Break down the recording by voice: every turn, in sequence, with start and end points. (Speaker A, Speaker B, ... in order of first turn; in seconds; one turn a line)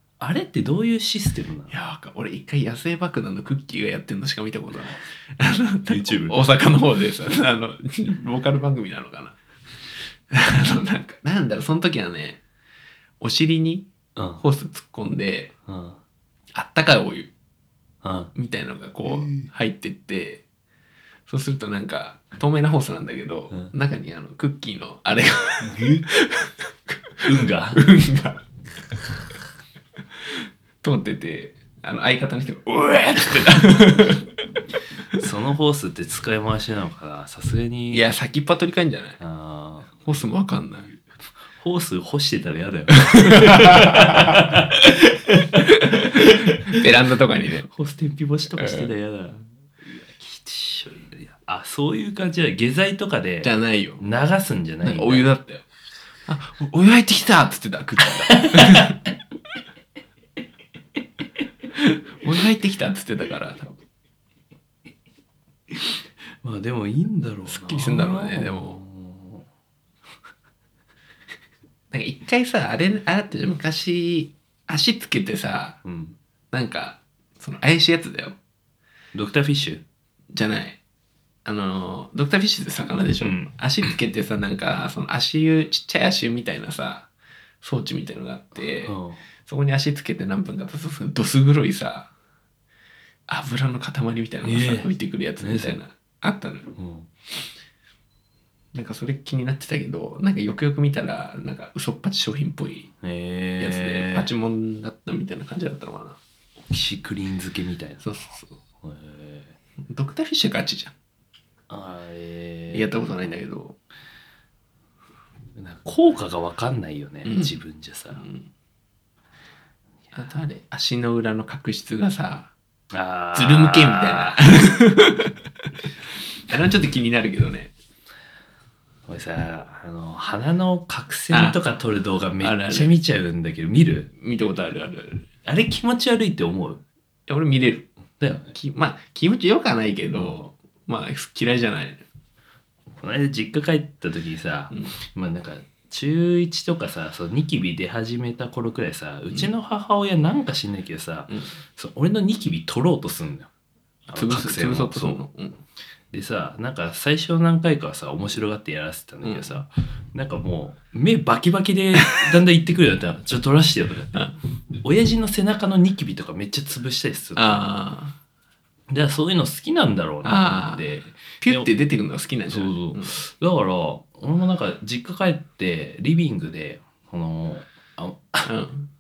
Speaker A: 0.2-1.7
Speaker B: 1.7-9.4
Speaker A: 5.9-6.4
Speaker B: 10.3-12.4
Speaker B: 13.2-15.6
Speaker A: 14.2-14.4
Speaker A: 15.7-16.0
Speaker B: 16.6-17.3
Speaker A: 18.0-18.3
Speaker B: 18.4-20.4
Speaker A: 19.1-19.5
Speaker B: 21.3-28.4
Speaker A: 25.6-26.1
Speaker A: 27.2-27.9
Speaker B: 30.8-34.3
Speaker A: 35.1-38.0
Speaker B: 37.9-39.2
Speaker A: 39.2-40.1
Speaker B: 40.0-40.9
Speaker A: 41.5-46.8
Speaker B: 43.0-44.4
Speaker B: 45.7-47.7
Speaker A: 47.7-55.3
Speaker B: 48.6-48.9
Speaker B: 53.4-54.0
Speaker B: 54.8-55.6
Speaker B: 56.3-59.0
Speaker A: 58.4-59.0
Speaker B: 61.8-63.8
Speaker A: 65.7-69.5
Speaker B: 67.5-68.8
Speaker B: 71.9-75.8
Speaker A: 75.8-76.2
Speaker B: 76.5-78.4
Speaker A: 79.1-79.8
Speaker B: 80.3-80.8
Speaker B: 81.5-87.1
Speaker A: 83.2-83.5
Speaker B: 87.6-92.1
Speaker A: 88.8-89.2
Speaker B: 93.3-96.7
Speaker A: 94.4-95.8
Speaker A: 96.8-97.1
Speaker B: 98.7-102.9
Speaker A: 103.0-104.3
Speaker B: 103.6-106.2
Speaker A: 106.6-108.1
Speaker B: 108.0-108.6
Speaker A: 108.8-109.6
Speaker B: 109.8-110.9
Speaker A: 111.7-113.3
Speaker B: 112.7-113.8
Speaker A: 115.5-118.3
Speaker B: 117.2-117.5
Speaker B: 118.1-118.5
Speaker B: 120.1-122.5
Speaker A: 122.9-124.4
Speaker B: 123.3-125.3
Speaker B: 126.5-127.7
Speaker A: 129.1-134.1
Speaker B: 131.3-131.6
Speaker B: 132.4-132.9
Speaker B: 134.2-135.3
Speaker A: 135.4-136.8
Speaker B: 137.3-137.9
Speaker A: 138.2-138.5
Speaker B: 138.5-142.1
Speaker A: 142.9-153.5
Speaker B: 151.3-151.6
Speaker A: 154.1-155.2
Speaker B: 154.1-155.6
Speaker A: 156.1-167.7
Speaker B: 159.2-159.6
Speaker B: 167.4-168.2
Speaker A: 168.9-171.7
Speaker B: 170.2-173.2
Speaker A: 172.5-178.5
Speaker B: 178.5-178.9